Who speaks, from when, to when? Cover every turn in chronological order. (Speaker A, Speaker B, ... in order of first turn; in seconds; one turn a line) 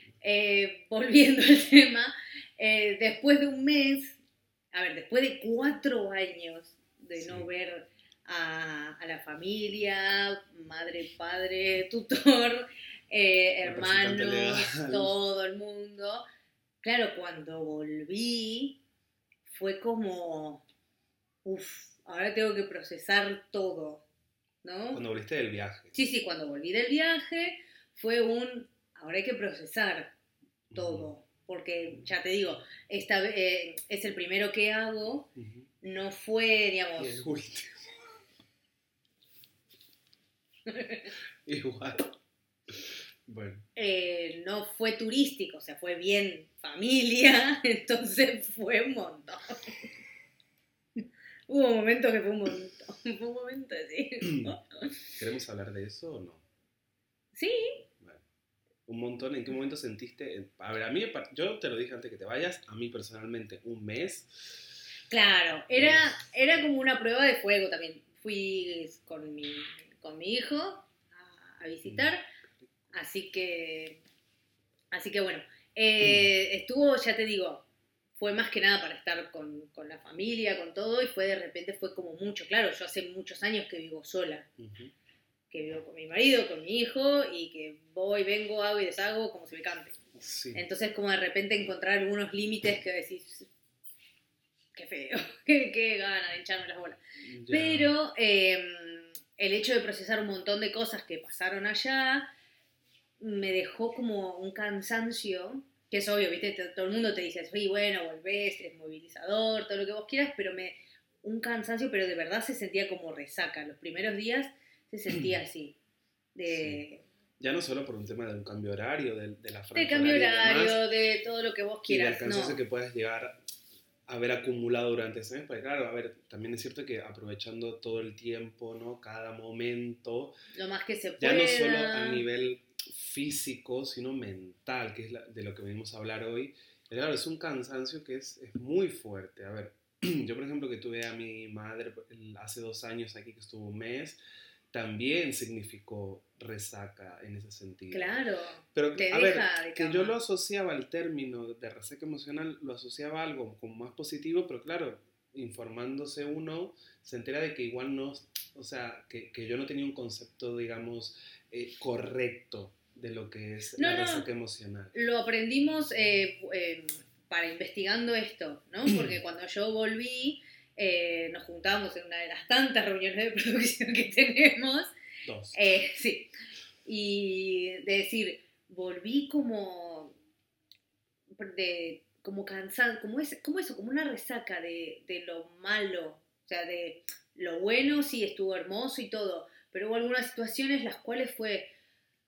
Speaker A: 0.2-4.2
Speaker A: 4.7-16.3
Speaker B: 7.2-7.5
Speaker B: 13.6-15.2
Speaker A: 16.8-18.8
Speaker A: 19.5-20.6
Speaker A: 21.4-24.1
Speaker A: 24.6-25.0
Speaker B: 24.9-26.0
Speaker A: 25.9-30.1
Speaker B: 30.7-31.1
Speaker A: 30.7-35.3
Speaker B: 35.4-35.7
Speaker A: 35.8-37.2
Speaker B: 37.0-37.9
Speaker A: 40.7-41.1
Speaker B: 41.5-42.1
Speaker B: 42.7-43.7
Speaker A: 43.8-49.6
Speaker A: 51.5-54.9
Speaker B: 54.3-54.5
Speaker B: 55.2-56.4
Speaker A: 57.4-57.8
Speaker B: 58.9-64.6
Speaker A: 65.1-72.2
Speaker B: 65.7-66.2
Speaker A: 72.9-74.0
Speaker A: 74.9-77.7
Speaker B: 76.0-76.3
Speaker A: 78.2-84.5
Speaker B: 84.6-84.9
Speaker A: 85.5-90.0
Speaker B: 90.2-90.6
Speaker A: 90.5-93.5
Speaker A: 94.8-102.3
Speaker B: 97.2-97.9
Speaker A: 103.2-115.8
Speaker A: 116.3-117.0
Speaker B: 116.5-116.8
Speaker B: 117.4-120.8
Speaker A: 119.8-122.6
Speaker B: 121.9-123.4
Speaker B: 124.1-130.4
Speaker A: 130.6-132.2
Speaker B: 131.2-144.2
Speaker B: 144.7-148.2
Speaker A: 147.9-150.2
Speaker B: 148.7-164.9
Speaker A: 163.8-164.3
Speaker A: 164.9-174.9
Speaker B: 168.9-169.2
Speaker B: 175.2-175.6
Speaker A: 175.5-176.3
Speaker A: 176.8-180.1
Speaker A: 181.3-191.7